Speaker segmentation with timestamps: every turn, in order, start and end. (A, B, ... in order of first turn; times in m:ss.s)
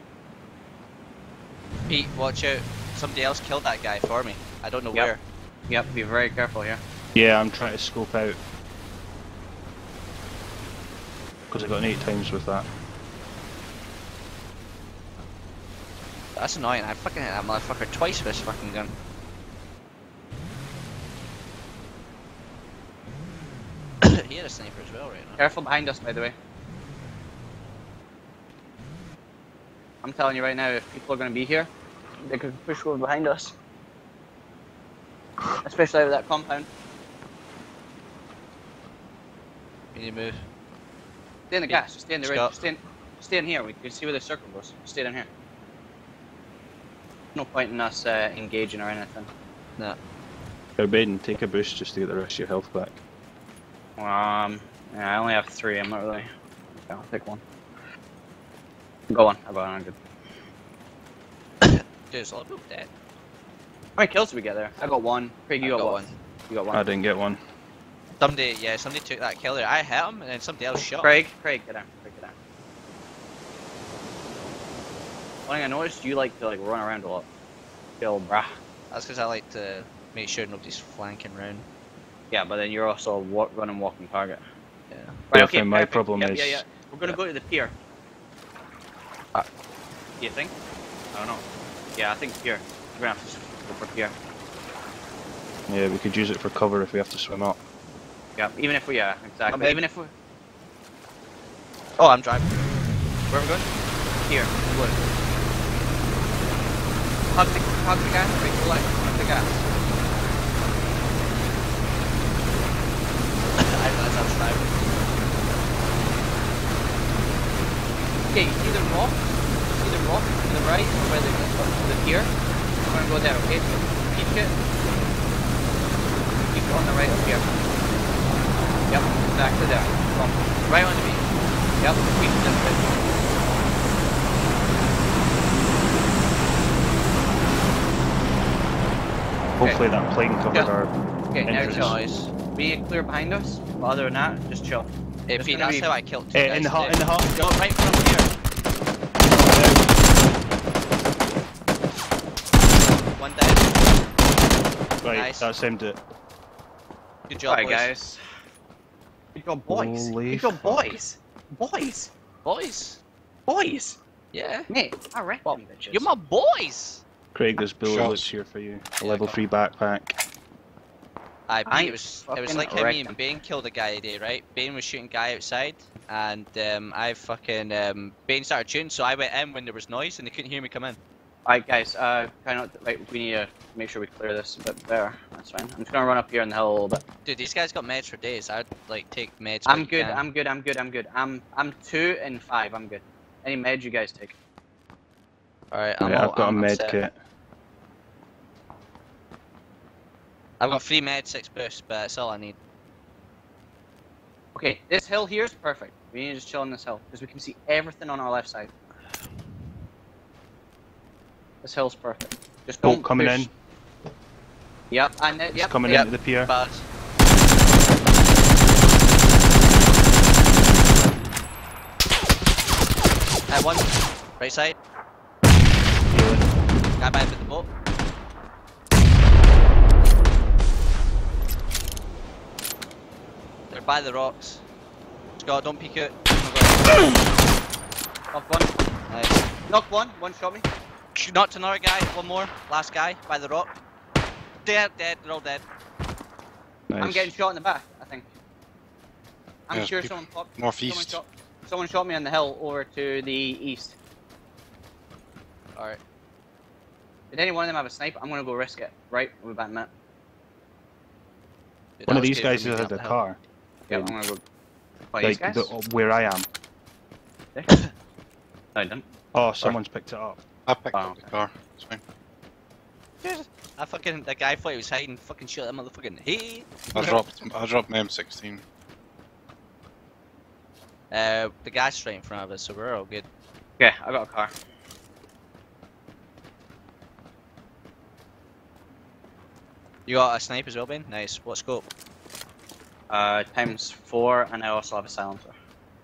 0:01.9-0:05.2 A
0:05.7-0:06.8 B
0:07.2-0:08.4 C
0:11.5-0:12.7 C
0:16.4-0:19.0 A
0:24.0-0:25.4 A
0:25.4-0:26.4 B
0:30.0-0:31.7 B
0:32.2-0:33.5 B
0:35.6-0:36.7 B
0:39.9-0:40.5 A
0:41.5-0:45.3 B
0:41.7-0:42.5 A
0:47.4-0:49.3 B
0:50.8-0:53.0 C
0:54.0-0:57.4 B
0:59.1-1:00.0 B
1:01.6-1:02.9 A
1:04.0-1:06.8 B
1:05.6-1:06.2 A
1:06.7-1:07.4 C
1:08.2-1:11.2 A
1:11.0-1:12.4 B
1:15.5-1:17.3 B
1:18.0-1:18.5 B
1:18.9-1:21.7 A
1:22.3-1:24.4 B
1:24.9-1:25.2 A
1:25.3-1:27.7 B
1:25.3-1:26.6 C
1:30.2-1:30.5 B
1:31.1-1:31.4 B
1:32.0-1:34.2 B
1:35.7-1:37.6 C
1:38.4-1:40.1 B
1:39.5-1:39.8 A
1:42.0-1:42.6 A
1:43.3-1:45.0 B
1:47.3-1:49.6 B
1:53.6-1:54.7 A
1:58.3-2:02.3 B
2:02.8-2:04.5 B
2:06.5-2:07.6 B
2:08.9-2:10.4 B
2:10.7-2:11.2 A
2:11.8-2:12.9 B
2:19.6-2:20.9 C
2:21.3-2:22.0 B
2:21.4-2:22.0 C
2:21.6-2:22.3 A
2:22.5-2:25.9 B
2:25.3-2:28.3 A
2:26.3-2:27.3 C
2:29.4-2:29.9 C
2:32.8-2:33.7 A
2:35.0-2:36.0 C
2:35.1-2:35.5 A
2:37.3-2:37.9 A
2:37.5-2:38.2 B
2:39.3-2:42.1 B
2:39.7-2:41.0 C
2:42.4-2:43.0 A
2:43.5-2:44.0 B
2:44.3-2:44.7 A
2:44.7-2:46.1 B
2:45.4-2:47.0 A
2:47.4-2:50.2 C
2:47.8-2:48.3 D
2:49.0-2:49.4 A
2:51.5-3:01.0 A
2:51.7-2:53.2 B
3:01.5-3:07.0 B
3:07.2-3:10.2 A
3:09.7-3:14.3 B
3:15.7-3:17.0 A
3:16.0-3:17.2 C
3:20.6-3:22.6 A
3:24.6-3:28.7 B
3:31.6-3:33.5 B
3:32.8-3:33.5 C
3:34.9-3:36.1 B
3:35.5-3:36.5 C
3:35.9-3:36.9 A
3:43.5-3:44.8 A
3:46.1-3:46.5 C
3:47.0-3:47.7 A
3:53.7-3:54.6 A
3:55.4-3:57.2 A
3:58.3-3:58.7 B
3:59.1-3:59.4 A
3:59.7-4:00.7 B
4:01.2-4:03.8 A
4:04.7-4:05.6 A
4:06.9-4:07.3 C
4:07.0-4:08.3 B
4:09.7-4:14.0 B
4:09.7-4:11.2 D
4:17.3-4:19.9 B
4:22.0-4:23.2 A
4:22.1-4:23.4 C
4:23.9-4:24.4 B
4:23.9-4:24.2 C
4:25.1-4:25.7 B
4:25.2-4:26.5 C
4:28.8-4:29.0 B
4:29.3-4:30.4 C
4:30.7-4:32.0 D
4:30.9-4:31.4 B
4:33.2-4:37.2 A
4:36.9-4:38.6 D
4:41.1-4:43.3 A
4:43.8-4:44.5 B
4:50.1-4:51.8 A
4:53.1-4:55.6 B